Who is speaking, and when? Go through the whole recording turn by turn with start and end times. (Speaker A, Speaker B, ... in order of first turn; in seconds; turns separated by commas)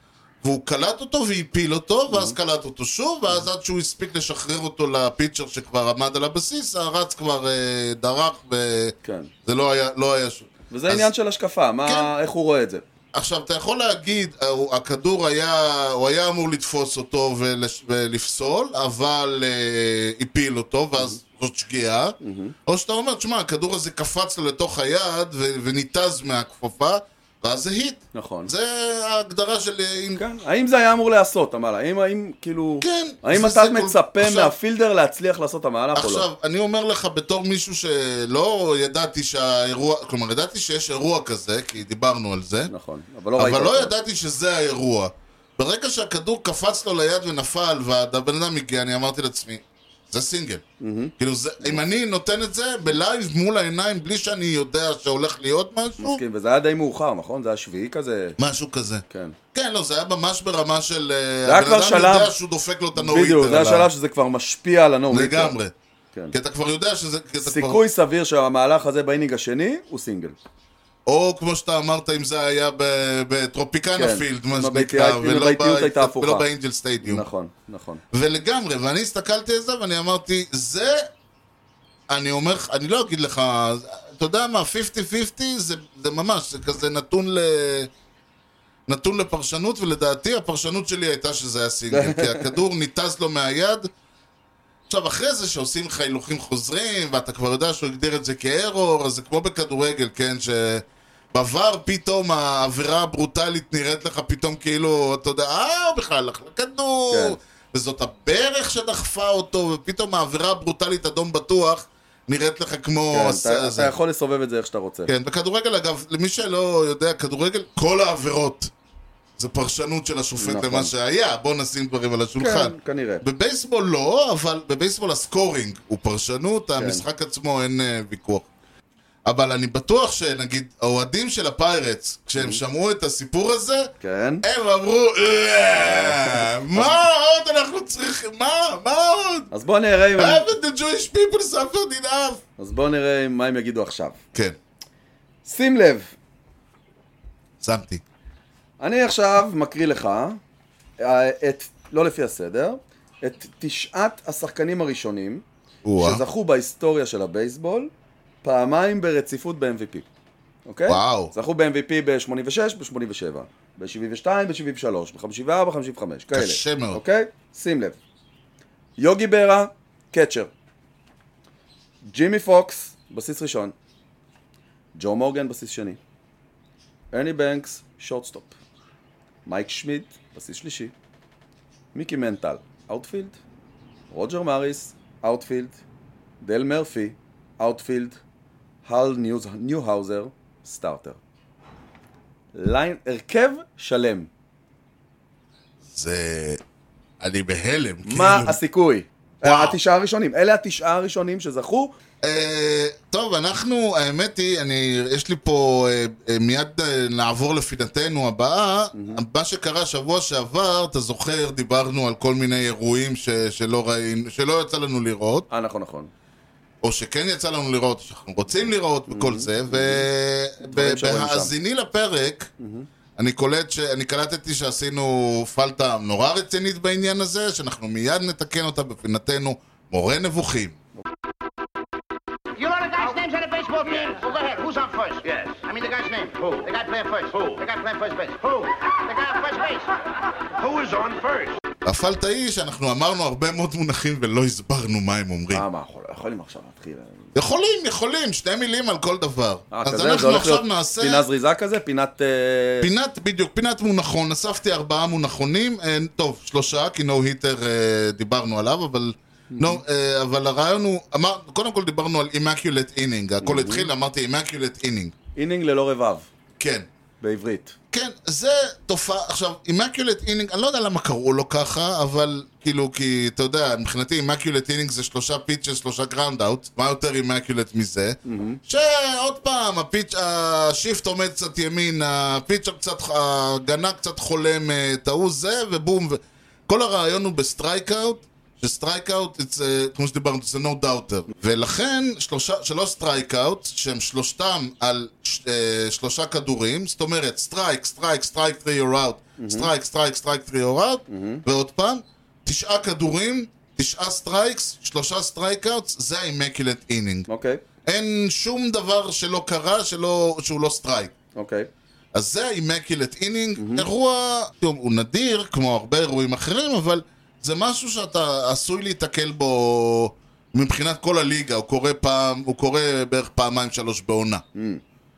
Speaker A: 0.4-11.1, Speaker B: 2.1-2.4, Speaker B: 9.0-9.3, Speaker B: 10.7-12.8, Speaker A: 11.8-12.1, Speaker A: 13.1-22.2, Speaker B: 22.2-22.6, Speaker A: 22.7-30.2, Speaker B: 28.1-28.5, Speaker B: 30.2-36.3, Speaker A: 32.8-34.5, Speaker A: 35.9-42.7, Speaker B: 42.7-43.9, Speaker A: 43.4-50.6, Speaker B: 50.8-51.8, Speaker A: 51.2-56.2, Speaker B: 56.0-58.4, Speaker A: 58.4-63.9, Speaker B: 59.1-59.4, Speaker B: 61.5-62.3, Speaker B: 62.9-65.5, Speaker A: 65.1-65.7, Speaker A: 66.3-67.8, Speaker B: 67.4-70.4, Speaker A: 71.1-77.3, Speaker B: 74.0-76.5, Speaker B: 77.0-78.0, Speaker A: 78.1-81.1, Speaker A: 82.1-87.9, Speaker A: 88.9-93.9, Speaker B: 91.9-92.5, Speaker A: 94.9-113.9, Speaker B: 107.1-107.4, Speaker B: 113.1-115.1, Speaker A: 115.1-118.7, Speaker A: 119.4-128.5, Speaker B: 120.4-120.9, Speaker B: 122.4-123.2, Speaker B: 126.8-127.1, Speaker A: 129.3-139.5, Speaker B: 134.0-134.4, Speaker B: 135.7-137.0, Speaker B: 139.5-140.4, Speaker A: 140.1-142.4, Speaker B: 142.6-144.2, Speaker B: 145.4-146.1, Speaker A: 147.6-148.0, Speaker B: 148.8-150.4, Speaker B: 151.0-155.4, Speaker A: 155.8-156.2, Speaker B: 156.0-157.9, Speaker B: 158.4-160.1, Speaker B: 160.7-168.0, Speaker A: 160.9-161.3, Speaker A: 166.3-167.0, Speaker B: 169.0-170.5, Speaker B: 172.0-173.8, Speaker B: 174.9-176.0, Speaker B: 177.1-178.6, Speaker B: 179.5-180.9, Speaker B: 181.9-183.4, Speaker B: 184.1-185.8, Speaker B: 186.4-188.2, Speaker B: 188.8-191.2, Speaker B: 192.5-194.3, Speaker A: 195.9-196.6, Speaker A: 197.2-198.6, Speaker B: 198.1-201.9, Speaker A: 199.4-199.8, Speaker A: 202.2-215.5, Speaker B: 208.9-209.2, Speaker B: 215.5-216.1, Speaker A: 216.8-222.5, Speaker B: 219.1-220.1, Speaker B: 220.6-221.5, Speaker B: 222.6-222.9, Speaker A: 223.2-230.8, Speaker C: 232.6-239.9, Speaker C: 240.5-241.6, Speaker A: 241.8-245.7, Speaker B: 245.5-247.3, Speaker A: 247.3-251.2, Speaker B: 249.7-252.9, Speaker A: 252.8-265.1, Speaker B: 259.5-259.8, Speaker B: 263.4-263.9, Speaker B: 265.4-266.3, Speaker A: 266.6-266.9, Speaker B: 267.2-267.8, Speaker A: 267.9-307.3, Speaker B: 278.2-278.6, Speaker B: 299.4-299.7, Speaker B: 301.1-301.4, Speaker B: 307.3-307.6, Speaker A: 307.9-311.1, Speaker B: 311.4-311.7, Speaker A: 312.1-324.4, Speaker B: 313.6-313.9, Speaker B: 324.5-324.8